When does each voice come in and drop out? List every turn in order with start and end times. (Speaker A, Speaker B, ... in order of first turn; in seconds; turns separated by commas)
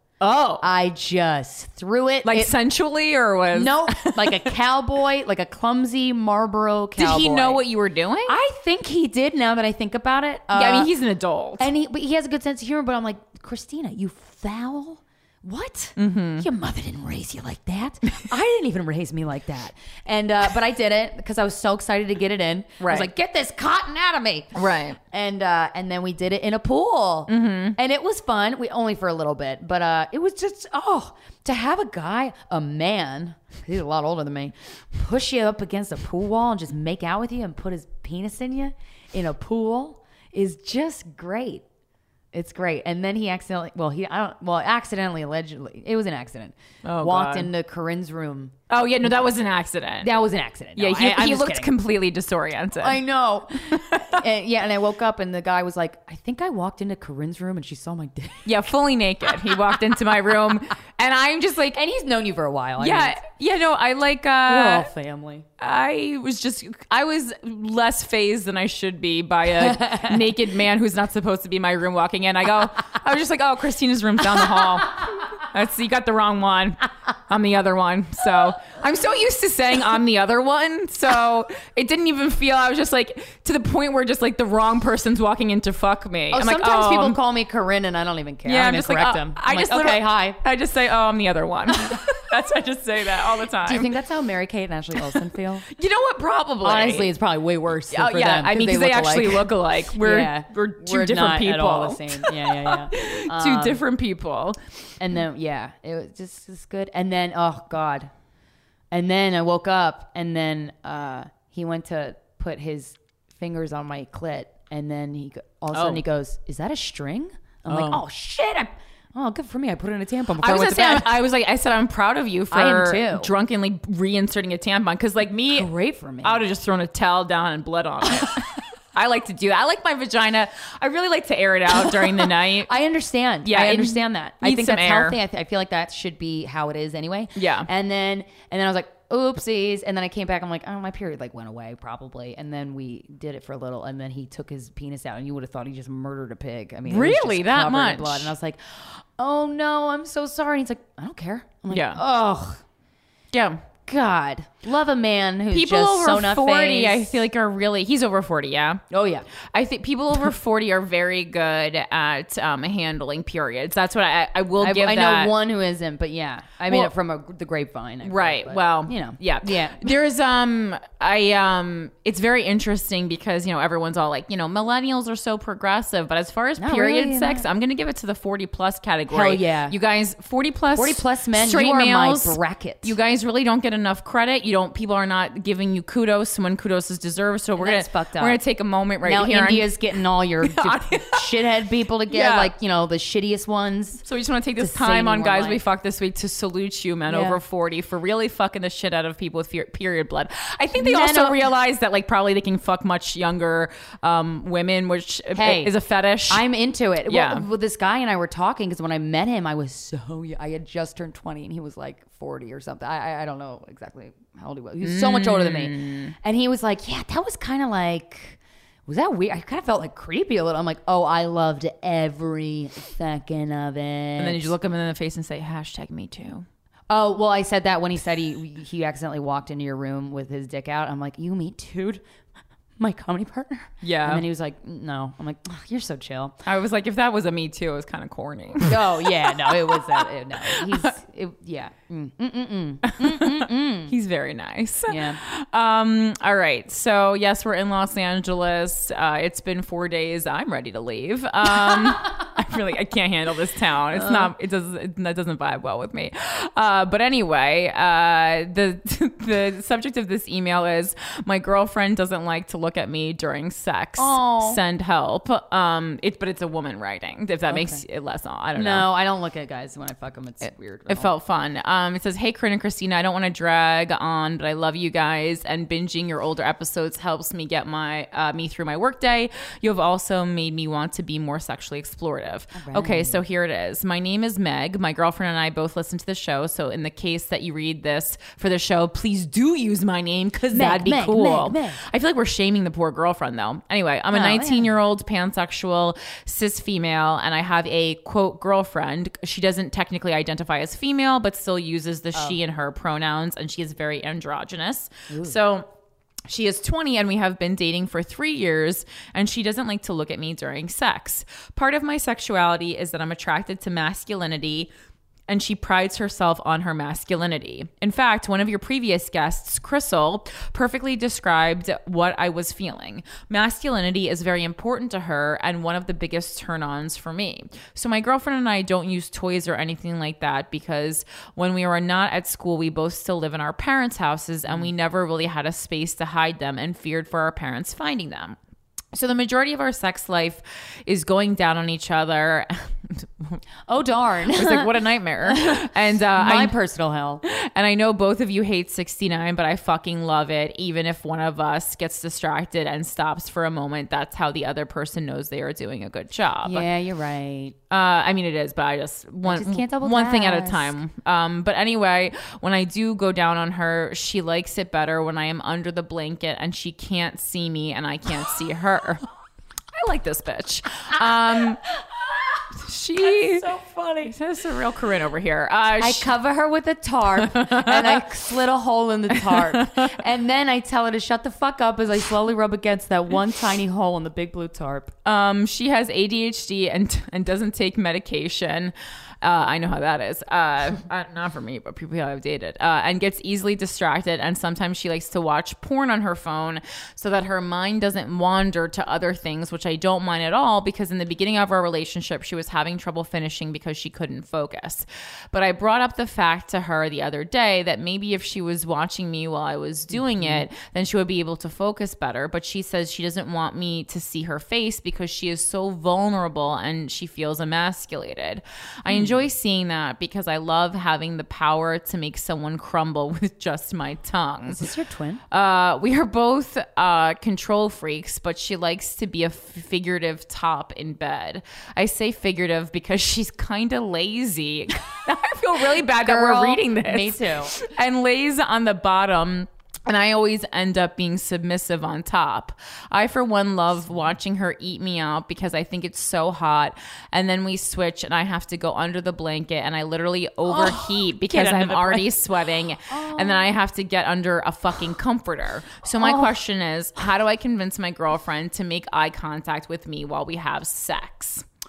Speaker A: 0.2-0.7, Speaker B: 0.6-2.5, Speaker A: 2.2-4.5, Speaker B: 3.5-7.6, Speaker A: 7.0-8.4, Speaker B: 8.2-10.9, Speaker A: 10.5-11.7, Speaker B: 11.6-41.6, Speaker A: 16.0-16.4, Speaker A: 22.8-23.1, Speaker A: 24.5-25.0, Speaker A: 27.3-27.8, Speaker B: 42.3-49.1, Speaker A: 46.8-47.5, Speaker A: 48.7-50.1, Speaker B: 50.0-51.7, Speaker A: 50.7-53.0, Speaker B: 52.8-58.5, Speaker A: 53.7-54.1, Speaker A: 58.4-61.8, Speaker B: 59.5-59.7, Speaker B: 61.7-63.2, Speaker A: 62.8-64.9, Speaker B: 64.5-65.5, Speaker A: 65.6-87.2, Speaker B: 69.5-70.2, Speaker B: 86.3-90.4, Speaker A: 88.4-93.9, Speaker B: 93.6-95.6, Speaker A: 95.7-97.1, Speaker B: 96.6-103.8, Speaker A: 97.9-104.9, Speaker B: 105.0-108.1, Speaker B: 108.9-121.2, Speaker A: 115.7-116.0, Speaker A: 117.7-118.0, Speaker A: 120.4-125.7, Speaker B: 122.5-123.3, Speaker B: 125.5-126.4, Speaker A: 126.2-132.7, Speaker B: 132.7-152.6, Speaker A: 133.4-135.2, Speaker A: 137.3-137.7, Speaker A: 146.8-148.3, Speaker A: 151.7-152.0, Speaker A: 153.3-153.6, Speaker B: 153.9-157.2, Speaker A: 155.5-158.8, Speaker B: 158.9-159.3, Speaker A: 159.3-165.3, Speaker B: 164.6-169.9, Speaker A: 166.7-166.9, Speaker A: 168.0-189.8, Speaker B: 176.6-177.4, Speaker B: 179.1-179.8, Speaker B: 180.8-182.9, Speaker B: 187.6-188.4, Speaker B: 189.0-194.0, Speaker A: 190.4-191.2, Speaker A: 192.1-192.5, Speaker A: 194.0-206.4, Speaker B: 194.6-195.6, Speaker B: 197.1-197.4, Speaker B: 200.8-201.4, Speaker B: 205.3-205.8, Speaker B: 206.3-224.5, Speaker A: 207.1-207.4, Speaker A: 214.8-216.1, Speaker A: 224.2-226.5, Speaker B: 226.9-232.0, Speaker B: 232.8-236.4, Speaker A: 233.8-234.2, Speaker A: 236.4-240.9, Speaker B: 238.7-243.9, Speaker A: 242.9-268.9, Speaker B: 244.9-245.2, Speaker B: 251.5-252.2, Speaker B: 253.9-254.3, Speaker B: 264.0-264.6, Speaker B: 267.5-267.8, Speaker B: 268.5-271.1, Speaker A: 270.4-305.7, Speaker B: 282.5-283.2, Speaker B: 290.5-291.8, Speaker B: 294.1-294.7, Speaker B: 305.1-305.4, Speaker A: 306.3-314.7, Speaker A: 315.3-338.4, Speaker A: 338.9-343.4, Speaker B: 343.7-347.2, Speaker A: 344.3-346.5, Speaker A: 347.2-356.6, Speaker B: 356.4-357.6, Speaker A: 357.7-369.0, Speaker B: 359.2-360.7, Speaker A: 369.7-371.6, Speaker A: 372.5-373.5, Speaker B: 373.2-373.9, Speaker A: 374.0-376.1, Speaker B: 375.8-384.9, Speaker A: 377.3-378.0, Speaker A: 379.2-379.9, Speaker A: 385.0-424.7, Speaker B: 409.9-410.4, Speaker B: 418.9-419.2, Speaker B: 424.5-425.2, Speaker A: 425.3-461.4, Speaker B: 435.8-437.5, Speaker B: 450.4-452.2, Speaker B: 452.9-453.5, Speaker B: 456.0-456.3